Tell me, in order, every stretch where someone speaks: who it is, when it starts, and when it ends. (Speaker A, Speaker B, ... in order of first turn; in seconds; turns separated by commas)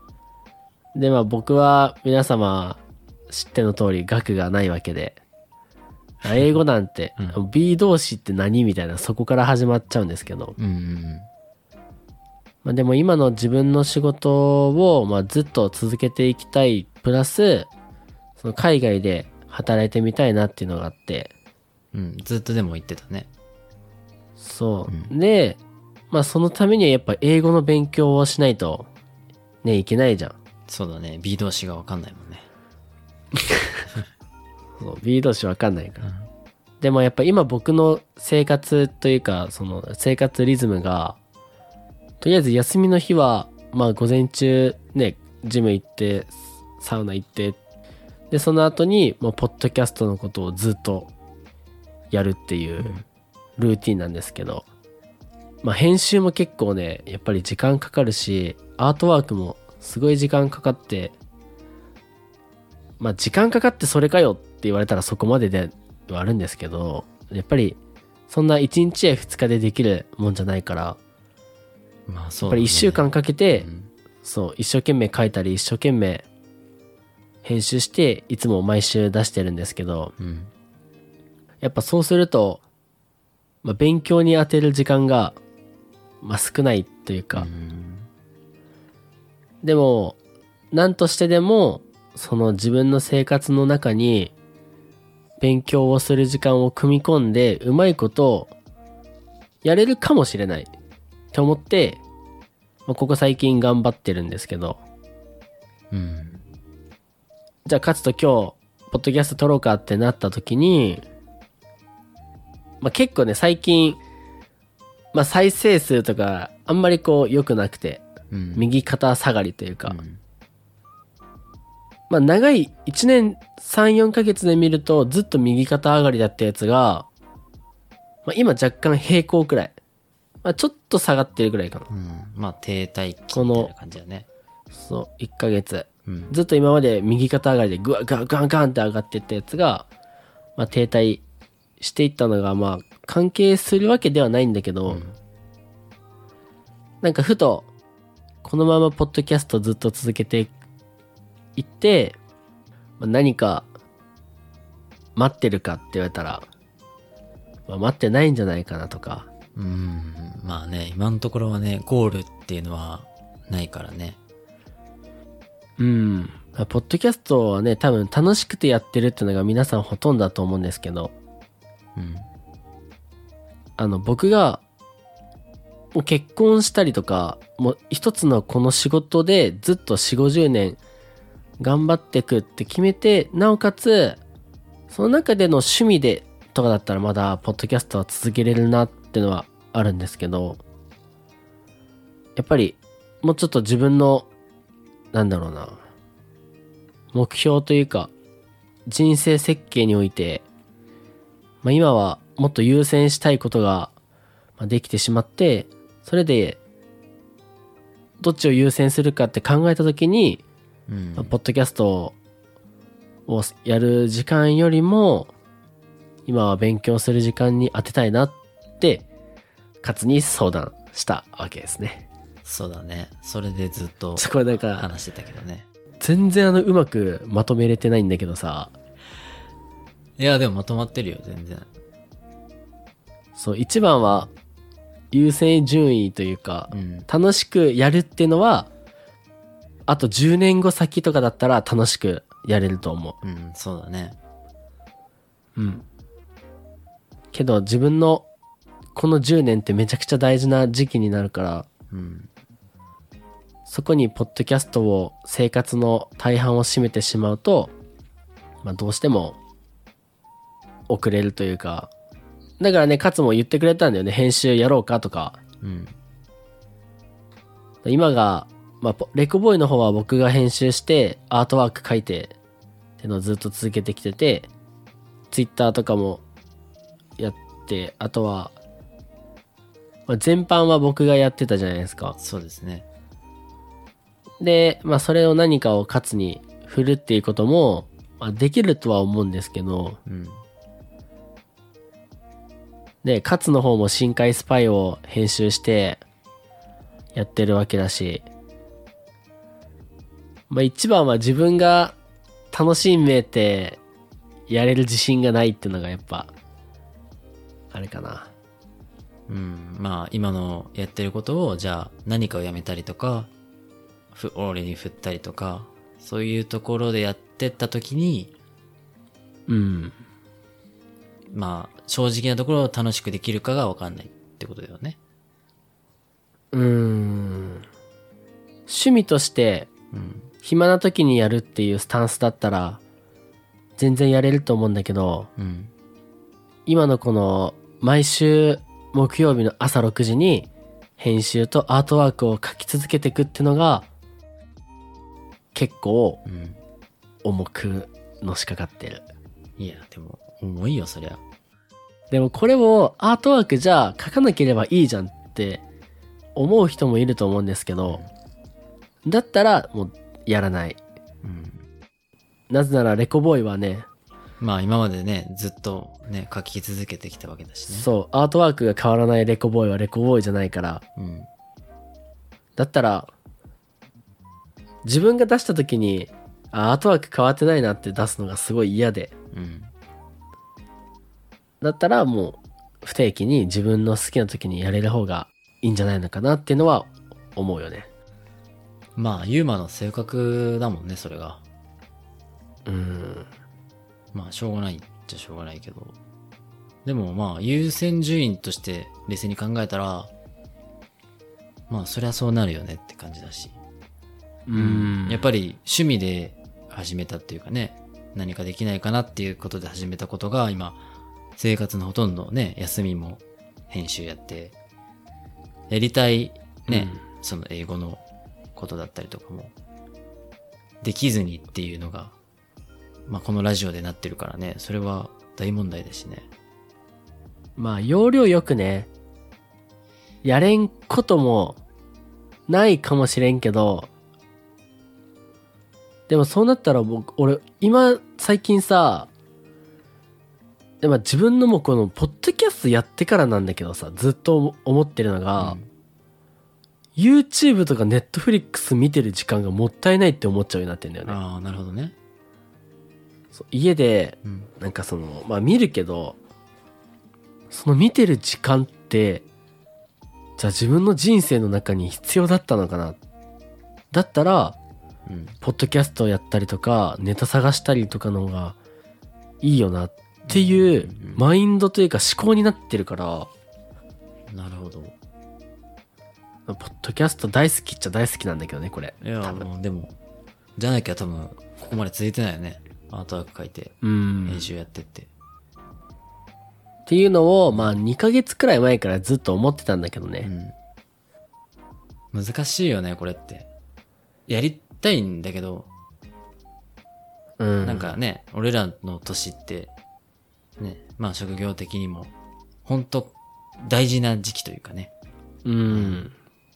Speaker A: 0.9-5.2, Speaker B: 6.2-6.6, Speaker A: 6.2-10.6, Speaker B: 10.6-11.3, Speaker A: 12.6-17.7, Speaker A: 18.4-21.3, Speaker B: 21.9-23.3, Speaker A: 24.4-25.6, Speaker A: 26.1-28.9, Speaker A: 29.6-30.4, Speaker B: 30.7-32.5, Speaker A: 33.4-33.8, Speaker A: 34.8-36.1, Speaker A: 36.8-41.2, Speaker A: 42.2-47.6, Speaker A: 48.3-51.1, Speaker A: 52.1-53.0, Speaker A: 53.6-54.6, Speaker A: 55.6-61.1, Speaker A: 63.0-67.8, Speaker A: 68.3-71.0, Speaker B: 72.1-73.9, Speaker A: 72.4-73.7, Speaker A: 74.2-76.2, Speaker A: 77.4-80.1, Speaker B: 80.2-80.5, Speaker A: 81.6-82.6, Speaker A: 83.6-85.4, Speaker A: 86.2-87.5, Speaker B: 87.3-88.1, Speaker A: 89.6-90.2, Speaker A: 90.7-94.3, Speaker A: 95.4-98.5, Speaker A: 99.6-100.7, Speaker A: 101.3-102.0, Speaker A: 102.9-104.8, Speaker B: 105.9-106.4, Speaker A: 107.7-111.0, Speaker A: 112.8-114.0, Speaker A: 115.1-118.0, Speaker B: 118.3-118.7, Speaker A: 118.5-120.0, Speaker B: 119.8-120.2, Speaker A: 122.1-127.1, Speaker A: 128.2-129.7, Speaker A: 130.4-131.9, Speaker B: 131.9-134.3, Speaker A: 133.3-133.7, Speaker A: 134.7-139.9, Speaker B: 136.1-136.3, Speaker A: 140.6-141.2, Speaker A: 141.8-145.0, Speaker B: 144.9-145.2, Speaker A: 147.0-147.7, Speaker A: 148.4-150.5, Speaker A: 151.6-152.2, Speaker A: 153.0-153.7, Speaker A: 155.2-156.4, Speaker A: 157.7-159.3, Speaker B: 159.5-164.2, Speaker A: 165.8-171.1, Speaker B: 171.9-172.3, Speaker A: 173.8-174.6, Speaker A: 175.9-180.8, Speaker A: 181.6-184.2, Speaker A: 184.9-190.6, Speaker A: 192.3-194.3, Speaker A: 195.1-195.8, Speaker A: 197.1-198.1, Speaker A: 198.9-200.4, Speaker A: 201.6-203.9, Speaker A: 204.6-206.6, Speaker A: 208.2-210.4, Speaker B: 210.9-211.3, Speaker A: 211.2-212.2, Speaker A: 213.3-215.3, Speaker A: 216.3-219.1, Speaker A: 219.8-222.1, Speaker B: 222.4-225.7, Speaker A: 224.2-224.9, Speaker A: 226.0-228.7, Speaker B: 230.2-231.7, Speaker A: 233.3-234.3, Speaker A: 235.1-238.7, Speaker B: 236.7-237.1, Speaker A: 239.9-243.2, Speaker B: 243.2-244.2, Speaker A: 245.6-245.8, Speaker A: 247.3-248.2, Speaker A: 248.9-251.7, Speaker B: 251.9-252.3, Speaker A: 253.7-257.7, Speaker A: 258.6-259.4, Speaker A: 260.9-261.9, Speaker A: 262.6-265.4, Speaker B: 265.6-265.9, Speaker A: 267.8-272.3, Speaker A: 273.0-274.5, Speaker A: 275.3-276.2, Speaker A: 277.2-278.5, Speaker A: 280.1-282.2, Speaker B: 282.2-282.9, Speaker A: 284.4-290.0, Speaker B: 290.1-290.4, Speaker A: 293.0-296.0, Speaker A: 297.1-298.2, Speaker A: 300.5-301.9, Speaker A: 302.5-303.8, Speaker A: 304.5-306.3, Speaker A: 307.7-308.3, Speaker B: 309.3-313.3, Speaker B: 314.1-318.3, Speaker A: 319.5-320.0, Speaker B: 321.3-325.0, Speaker A: 326.5-327.7, Speaker A: 328.7-329.7, Speaker B: 329.9-330.3, Speaker A: 330.4-332.8, Speaker A: 333.8-335.3, Speaker B: 335.4-335.7, Speaker A: 336.6-343.9, Speaker A: 345.5-346.2, Speaker B: 346.2-346.6, Speaker A: 347.2-349.0, Speaker B: 349.6-351.2, Speaker A: 352.1-355.6, Speaker A: 356.3-358.0, Speaker A: 359.0-360.8, Speaker B: 361.2-361.6, Speaker A: 362.5-363.9, Speaker B: 364.4-367.9, Speaker A: 367.7-370.8, Speaker B: 371.0-371.3, Speaker A: 372.6-373.1, Speaker A: 374.8-379.1, Speaker B: 379.3-379.7, Speaker A: 381.6-387.9, Speaker B: 388.9-391.4, Speaker A: 392.6-393.3, Speaker B: 394.1-396.0, Speaker B: 396.8-400.1, Speaker B: 401.7-403.6, Speaker A: 404.5-405.2, Speaker B: 404.6-410.8, Speaker B: 411.4-414.5, Speaker B: 415.7-418.0, Speaker A: 416.7-417.0, Speaker B: 418.5-419.5, Speaker B: 420.8-422.1, Speaker B: 423.1-426.3, Speaker A: 427.6-428.9, Speaker A: 430.2-431.6, Speaker A: 432.5-433.9, Speaker A: 436.1-439.1, Speaker A: 440.8-445.6, Speaker B: 445.4-445.7, Speaker A: 446.9-451.2, Speaker B: 451.1-451.9, Speaker A: 453.3-456.2, Speaker A: 457.5-459.2, Speaker A: 460.4-463.0, Speaker A: 463.9-464.6, Speaker B: 465.1-465.4, Speaker A: 465.4-468.6, Speaker A: 469.4-473.3, Speaker B: 470.2-471.2, Speaker B: 474.3-474.9, Speaker A: 476.5-479.5, Speaker B: 479.0-479.9, Speaker B: 480.6-485.1, Speaker A: 483.8-484.5, Speaker A: 486.9-490.3, Speaker B: 487.5-487.7, Speaker B: 490.2-490.5, Speaker B: 492.1-493.5, Speaker B: 494.3-495.7, Speaker A: 497.4-497.9, Speaker B: 497.6-499.7, Speaker B: 500.6-502.1, Speaker B: 502.6-504.9, Speaker A: 505.4-506.1, Speaker B: 505.7-506.0